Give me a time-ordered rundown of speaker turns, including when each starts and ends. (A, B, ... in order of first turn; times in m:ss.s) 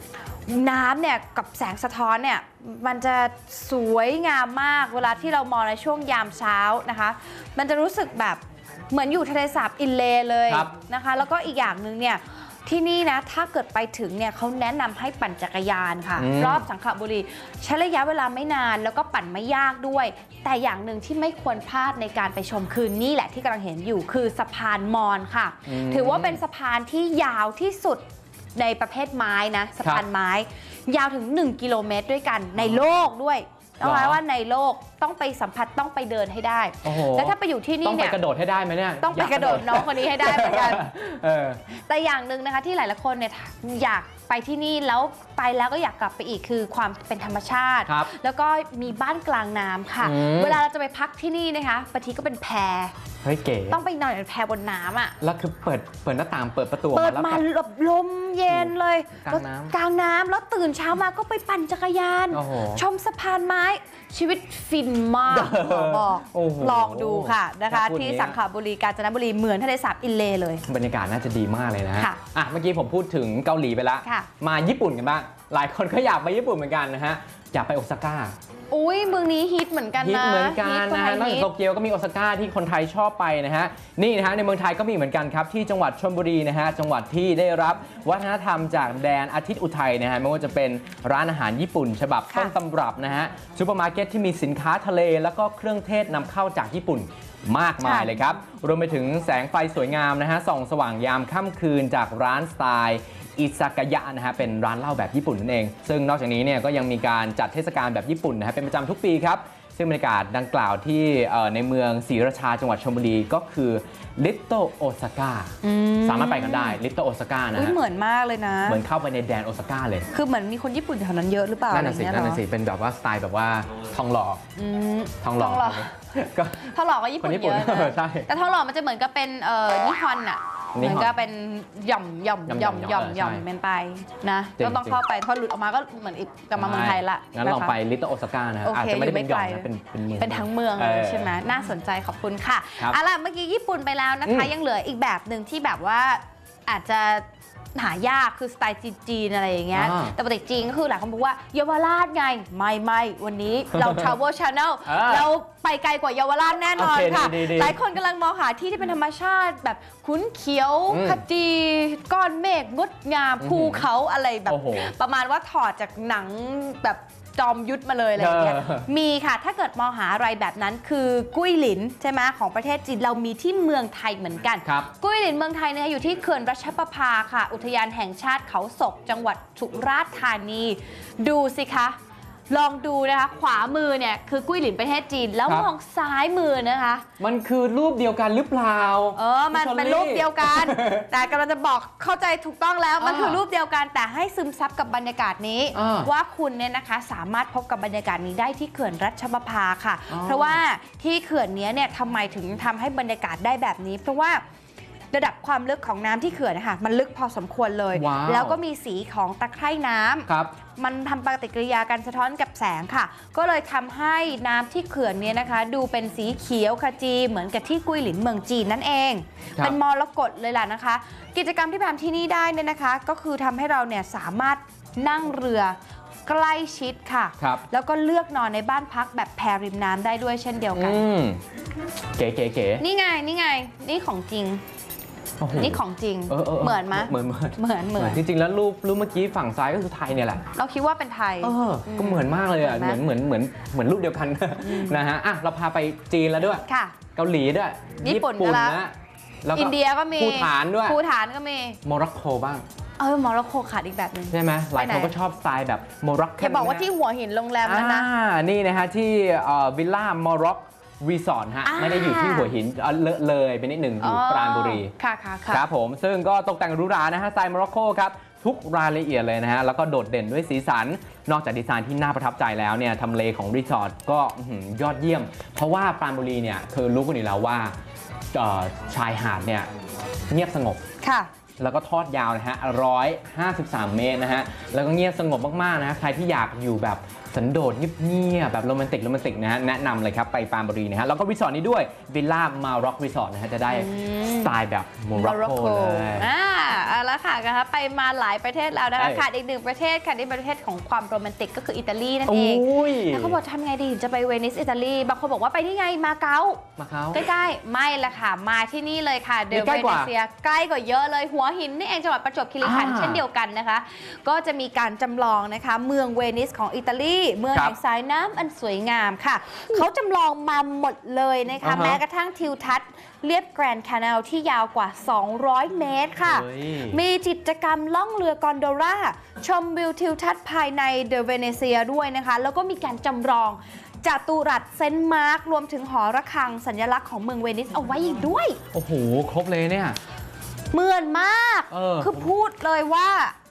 0:00.5-0:28.0 A
0:16.2-0:16.6 B
0:25.7-0:26.4 B
0:28.6-0:38.2 A
0:33.8-0:34.2 B
0:36.8-0:41.6 B
0:39.0-0:40.9 A
0:41.7-0:52.9 A
0:47.9-0:48.1 B
0:50.0-0:50.6 B
0:53.2-0:53.8 B
0:53.7-0:55.2 A
0:55.2-0:57.4 B
0:56.9-1:10.6 A
0:58.5-0:59.7 B
1:02.3-1:02.8 B
1:05.3-1:08.4 B
1:10.7-1:18.4 B
1:14.0-1:14.3 A
1:18.7-1:21.5 A
1:20.0-1:57.8 B
1:37.8-1:38.2 A
1:55.6-1:56.8 A
1:57.5-1:58.8 A
1:58.7-2:00.1 B
2:00.1-2:02.4 A
2:01.7-2:04.4 B
2:04.6-2:06.0 A
2:05.2-2:08.3 B
2:06.6-2:17.8 A
2:10.8-2:11.1 B
2:12.5-2:13.4 B
2:14.6-2:15.0 B
2:16.6-2:21.3 B
2:18.6-2:19.7 A
2:20.2-3:02.0 A
2:29.7-2:30.2 B
2:34.9-2:35.3 B
2:36.7-2:37.8 B
2:40.9-2:41.2 B
2:43.4-2:43.9 B
2:44.5-2:44.9 B
2:48.2-2:48.9 B
3:02.5-3:07.1 A
3:07.2-3:11.1 B
3:09.2-3:24.4 A
3:13.0-3:13.4 B
3:15.7-3:16.1 B
3:20.1-3:20.6 B
3:25.1-3:51.0 A
3:27.9-3:28.6 B
3:30.3-3:30.6 B
3:50.8-3:51.4 B
3:52.2-3:52.8 B
3:52.8-3:54.6 A
3:55.4-4:00.5 B
3:55.5-3:58.2 A
4:00.6-4:03.0 A
4:01.4-4:11.0 B
4:04.6-4:05.0 A
4:06.7-4:07.0 A
4:08.0-4:08.8 A
4:09.5-4:11.8 A
4:11.8-4:12.6 B
4:13.0-4:15.1 A
4:14.3-4:16.9 B
4:16.4-4:18.1 A
4:17.6-4:24.9 B
4:21.6-4:22.5 A
4:24.0-4:25.7 A
4:25.5-4:37.7 B
4:38.3-4:39.7 B
4:40.3-4:40.8 B
4:41.0-4:41.3 A
4:41.6-4:56.3 B
4:53.7-4:54.6 A
4:55.2-5:38.6 A
4:59.0-4:59.2 B
5:02.3-5:03.4 B
5:06.8-5:07.3 B
5:09.5-5:10.1 B
5:12.6-5:13.2 B
5:21.6-5:22.0 B
5:26.2-5:27.0 B
5:38.7-5:40.0 B
5:40.7-5:43.4 A
5:41.7-5:42.3 B